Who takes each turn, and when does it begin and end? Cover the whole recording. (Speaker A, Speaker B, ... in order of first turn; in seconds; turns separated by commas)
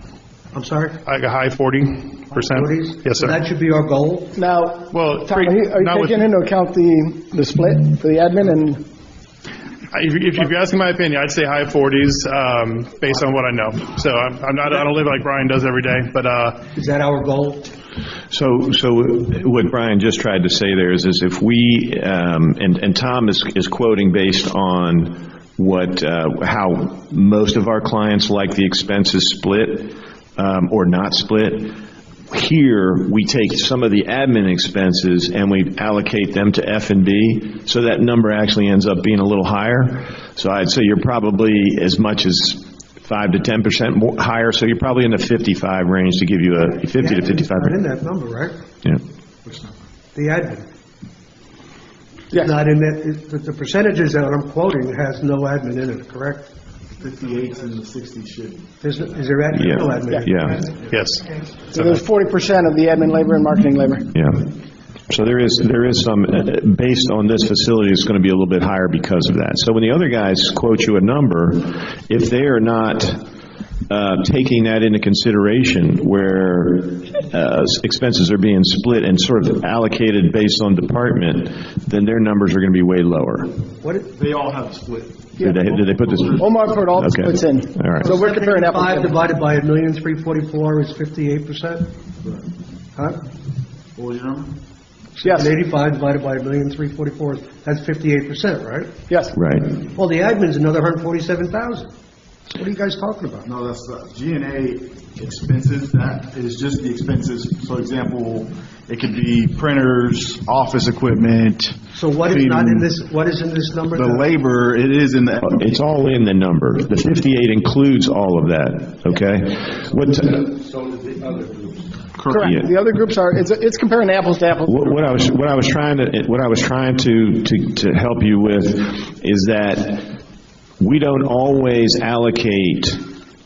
Speaker A: 0.5-1.0, Speaker B: 1.1-3.4, Speaker A: 2.3-4.3, Speaker C: 4.3-8.8, Speaker B: 4.9-6.2, Speaker B: 9.9-16.6, Speaker A: 16.7-17.7, Speaker D: 18.3-31.8, Speaker D: 32.3-47.8, Speaker A: 47.0-48.5, Speaker A: 50.1-50.6, Speaker A: 52.3-56.5, Speaker E: 57.0-58.7, Speaker A: 58.8-60.7, Speaker D: 59.5-60.6, Speaker B: 60.9-61.3, Speaker C: 61.7-64.1, Speaker D: 64.1-64.5, Speaker D: 65.1-73.2, Speaker D: 73.9-83.5, Speaker A: 83.8-84.1, Speaker E: 84.1-86.5, Speaker D: 85.4-86.5, Speaker C: 86.4-89.2, Speaker D: 87.0-88.1, Speaker A: 88.0-91.9, Speaker E: 94.0-94.6, Speaker A: 95.2-98.9, Speaker C: 95.2-95.5, Speaker C: 99.1-99.4, Speaker D: 99.3-99.8, Speaker A: 99.8-101.9, Speaker A: 102.5-103.5, Speaker E: 103.4-112.9, Speaker A: 111.9-114.3, Speaker E: 113.9-115.6, Speaker D: 115.4-120.5, Speaker E: 122.2-122.5, Speaker C: 122.3-125.0, Speaker D: 122.4-122.7, Speaker D: 124.7-130.1, Speaker D: 130.8-133.1